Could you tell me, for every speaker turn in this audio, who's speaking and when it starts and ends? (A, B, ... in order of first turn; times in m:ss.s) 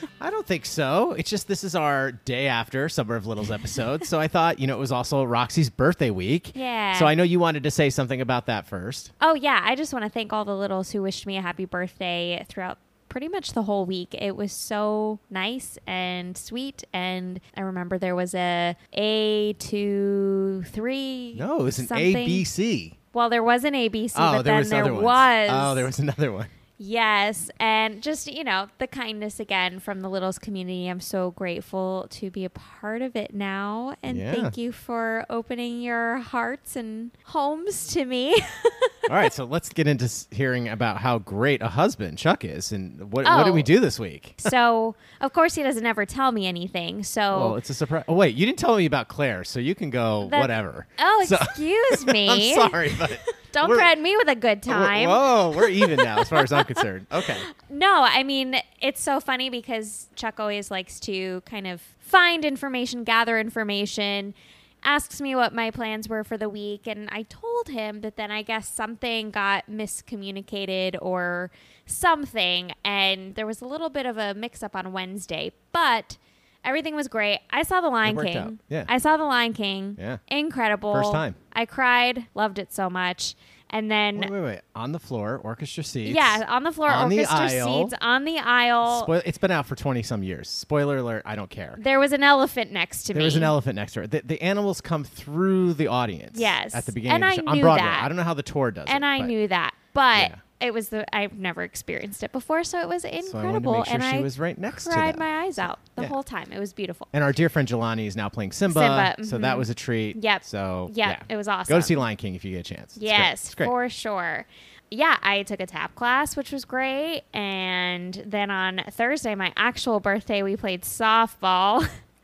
0:00.2-0:09.1 A
0:06.5-0:07.1 B
0:09.2-0:22.5 B
0:21.3-0:23.0 A
0:23.1-0:25.9 B
0:24.1-0:26.5 A
0:26.8-0:39.0 B
0:34.1-0:34.6 A
0:39.1-0:44.5 A
0:43.2-0:43.7 B
0:44.4-0:47.6 B
0:47.3-0:53.9 A
0:50.2-0:56.8 B
0:54.7-0:57.5 A
0:57.5-1:24.3 B
1:18.0-1:18.9 A
1:20.9-1:21.4 A
1:24.2-1:27.9 A
1:26.0-1:29.1 B
1:28.8-1:31.8 A
1:31.8-1:33.5 B
1:33.1-1:39.3 A
1:36.3-1:38.1 B
1:38.9-1:47.1 B
1:40.2-1:40.4 A
1:43.2-1:46.2 A
1:47.1-1:53.7 A
1:48.7-1:52.0 B
1:53.0-2:01.9 B